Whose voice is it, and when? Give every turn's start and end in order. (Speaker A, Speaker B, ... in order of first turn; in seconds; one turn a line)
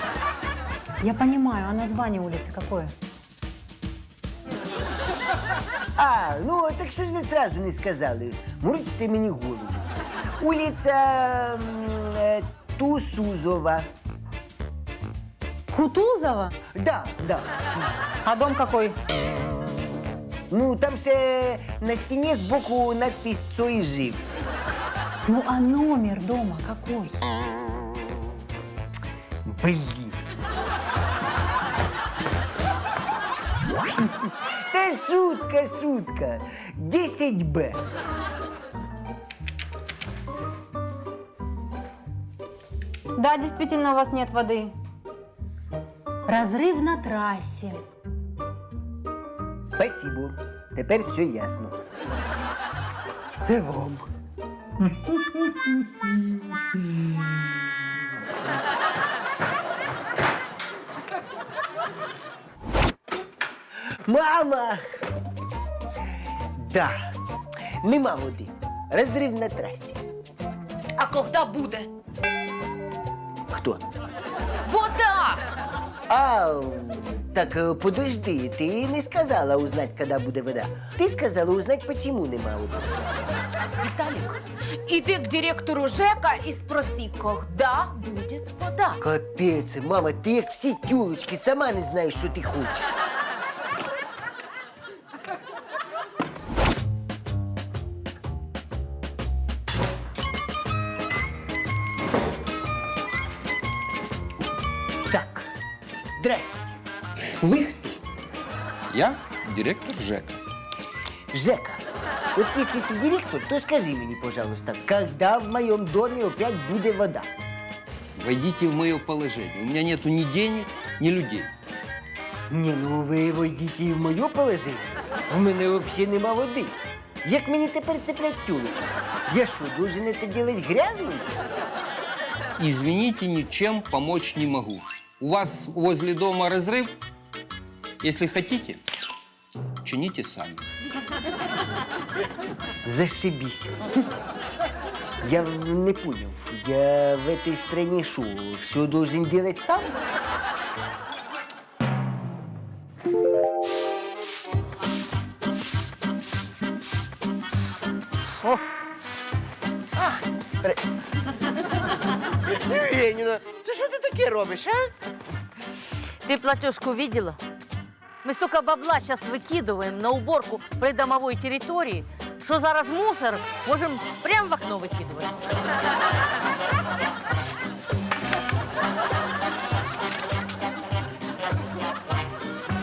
Speaker A: 1.0-2.9
Speaker B: 6.0-9.9
Speaker B: 10.4-13.9
Speaker A: 15.7-16.5
Speaker B: 16.7-17.5
Speaker A: 18.2-19.0
Speaker B: 20.5-24.2
Speaker A: 25.3-27.2
Speaker B: 29.4-30.2
Speaker B: 34.0-37.8
Speaker A: 43.1-44.7
Speaker A: 46.3-47.8
Speaker B: 49.6-51.8
Speaker B: 53.4-54.1
Speaker B: 55.0-55.7
Speaker B: 64.0-65.0
Speaker B: 66.6-67.1
Speaker B: 67.8-70.0
Speaker C: 71.0-71.9
Speaker B: 73.5-73.8
Speaker C: 74.7-75.4
Speaker B: 76.1-82.9
Speaker C: 83.8-89.0
Speaker B: 89.0-92.9
Speaker B: 105.1-105.5
Speaker B: 106.2-106.8
Speaker B: 107.4-108.0
Speaker D: 108.9-110.4
Speaker B: 111.3-111.8
Speaker B: 112.3-117.3
Speaker D: 118.2-121.5
Speaker B: 122.5-131.3
Speaker D: 132.6-136.9
Speaker D: 138.0-138.8
Speaker D: 139.8-140.6
Speaker B: 142.8-143.8
Speaker B: 145.2-150.0
Speaker E: 162.5-164.9
Speaker F: 166.2-167.4
Speaker F: 168.2-175.4